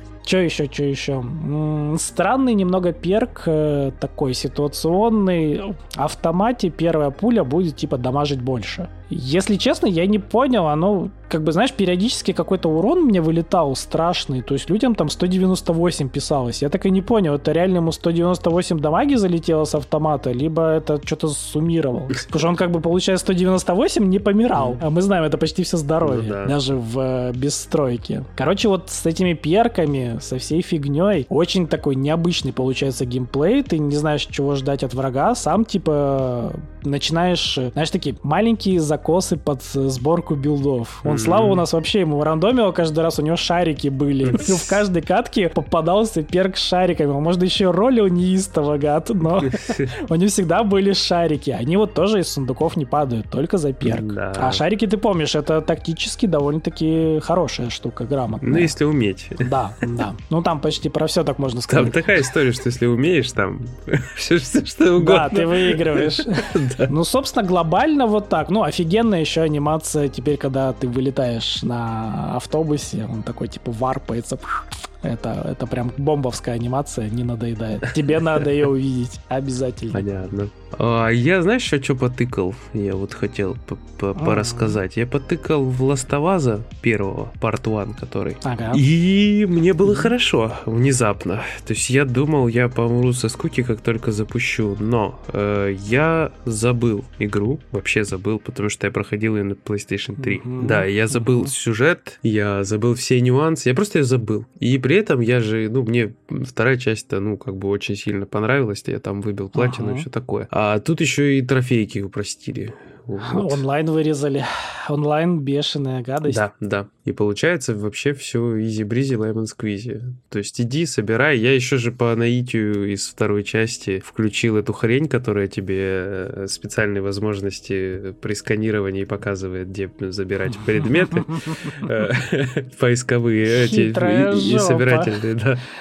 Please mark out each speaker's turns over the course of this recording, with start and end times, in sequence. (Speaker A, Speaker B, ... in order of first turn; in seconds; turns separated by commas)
Speaker A: 0.2-58.7, Speaker B: 26.0-26.6, Speaker B: 41.0-41.6, Speaker B: 44.2-44.8, Speaker B: 49.4-49.9, Speaker B: 53.8-54.6, Speaker B: 58.4-59.5, Speaker A: 59.4-62.3, Speaker B: 61.7-66.9, Speaker A: 65.0-80.0, Speaker B: 79.9-113.6, Speaker A: 84.2-84.8, Speaker A: 88.4-88.8, Speaker A: 89.8-90.1, Speaker A: 100.2-101.5, Speaker A: 109.5-110.0, Speaker A: 113.2-116.4, Speaker B: 116.2-135.6, Speaker A: 130.9-131.8, Speaker A: 133.5-135.2